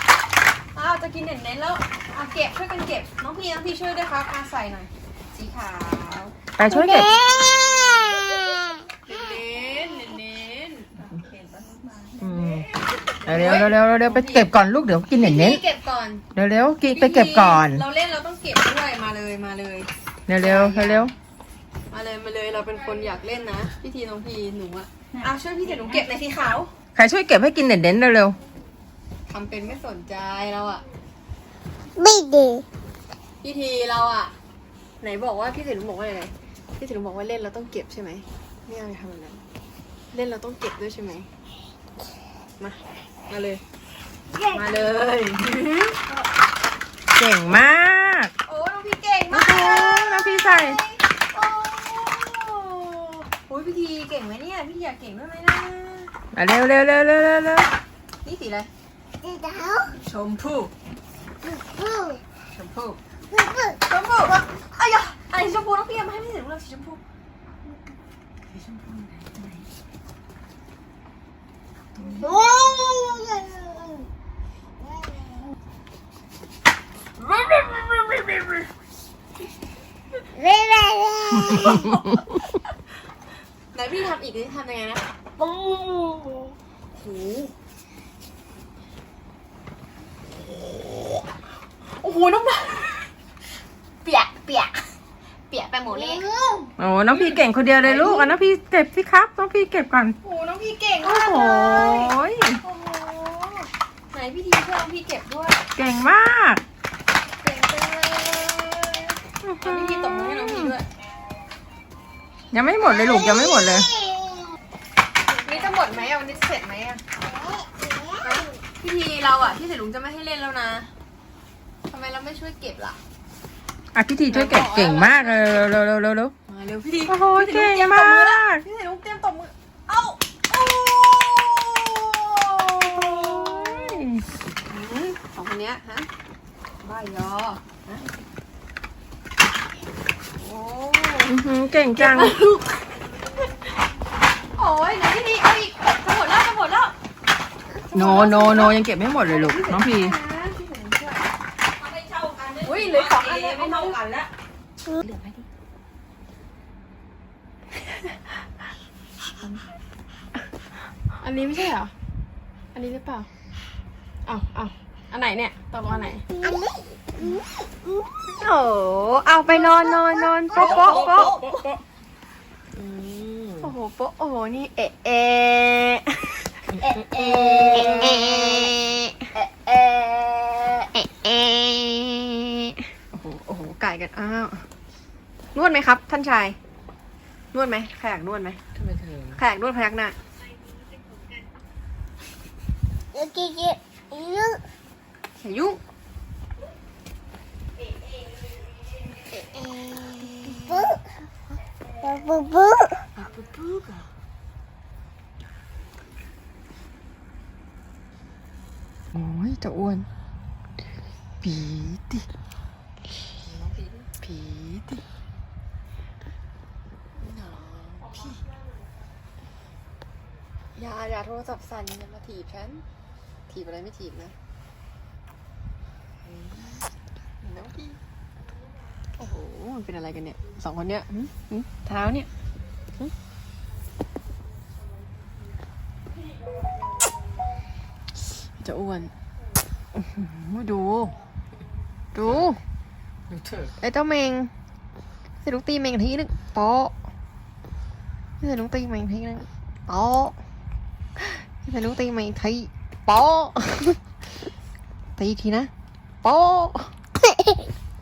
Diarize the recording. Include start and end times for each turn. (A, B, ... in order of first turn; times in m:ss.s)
0:00.7-0:06.3 A
0:06.6-0:07.1 B
0:06.7-0:08.9 C
0:09.1-0:11.0 A
0:12.2-0:12.7 B
0:13.2-0:15.6 B
0:13.3-0:14.5 A
0:15.1-0:16.2 A
0:16.3-0:17.8 B
0:16.9-0:21.1 A
0:20.3-0:21.1 B
0:21.9-0:26.7 A
0:26.9-0:28.4 B
0:29.3-0:30.8 A
0:32.0-0:32.6 C
0:33.4-0:34.3 A
0:35.0-0:39.4 A
0:40.1-0:41.3 A
0:43.3-0:43.6 A
0:44.3-0:44.9 C
0:44.5-0:46.1 A
0:47.1-0:48.3 B
0:48.4-0:56.1 A
0:49.3-0:50.8 B
0:56.3-0:57.7 B
0:58.2-0:58.7 A
0:59.2-1:00.0 C
1:00.0-1:00.7 A
1:01.4-1:02.2 C
1:02.5-1:03.0 A
1:03.3-1:04.4 C
1:03.8-1:07.0 A
1:08.5-1:09.5 B
1:12.1-1:14.1 C
1:14.9-1:15.2 C
1:17.2-1:17.9 A
1:18.1-1:18.4 B
1:20.3-1:22.0 C
1:21.3-1:22.4 B
1:23.7-1:25.0 A
1:25.4-1:25.9 B
1:27.0-1:27.5 A
1:32.0-1:33.0 A
1:34.0-1:34.9 A
1:35.5-1:36.2 A
1:35.9-1:36.7 C
1:36.8-1:40.2 B
1:37.1-1:38.3 A
1:40.2-1:45.6 A
1:41.0-1:42.6 B
1:45.8-1:46.6 B
1:47.4-1:50.9 A
1:49.4-1:50.0 B
1:52.5-1:53.9 B
1:52.8-1:54.5 C
1:55.4-1:57.0 A
1:57.2-1:58.5 C
1:58.2-2:00.9 A
2:01.9-2:03.0 A
2:03.9-2:06.3 B
2:04.3-2:05.7 A
2:06.5-2:14.0 A
2:07.1-2:08.6 B
2:12.9-2:14.2 B
2:14.7-2:16.1 A
2:16.8-2:18.0 A
2:20.4-2:21.3 A
2:21.2-2:22.4 B
2:22.0-2:22.7 A
2:24.5-2:26.9 A
2:27.7-2:31.3 A
2:27.9-2:30.2 B
2:31.8-2:34.3 B
2:32.6-2:34.0 A
2:41.2-2:41.9 A
2:42.7-2:43.3 A
2:44.2-2:46.2 A
2:46.1-2:48.0 C
2:48.3-2:51.4 A
2:49.6-2:51.3 C
2:50.5-2:51.8 B
2:52.8-2:53.7 B
2:53.6-2:56.6 A
2:56.7-2:58.6 B
2:57.1-3:04.6 A
3:05.5-3:06.6 A
3:07.5-3:08.6 A
3:08.8-3:09.4 B
3:09.4-3:10.2 A
3:10.9-3:11.3 C
3:13.1-3:14.6 C
3:15.4-3:15.8 A
3:19.3-3:21.0 C
3:19.9-3:20.6 A
3:22.0-3:23.1 C
3:23.2-3:24.1 B
3:29.1-3:30.1 A
3:31.4-3:32.3 A
3:33.4-3:34.1 B
3:34.2-3:35.0 A
3:37.2-3:38.4 A
3:40.8-3:42.8 A
3:43.5-3:44.3 A
3:47.4-3:48.0 A
3:49.2-3:52.3 A
3:58.6-3:59.1 A
3:59.9-4:01.2 A
4:02.1-4:02.6 A
4:03.3-4:03.7 B
4:03.8-4:04.5 A
4:05.4-4:06.9 A
4:08.4-4:10.4 A
4:11.2-4:14.0 A
4:15.2-4:15.7 A
4:16.2-4:17.5 A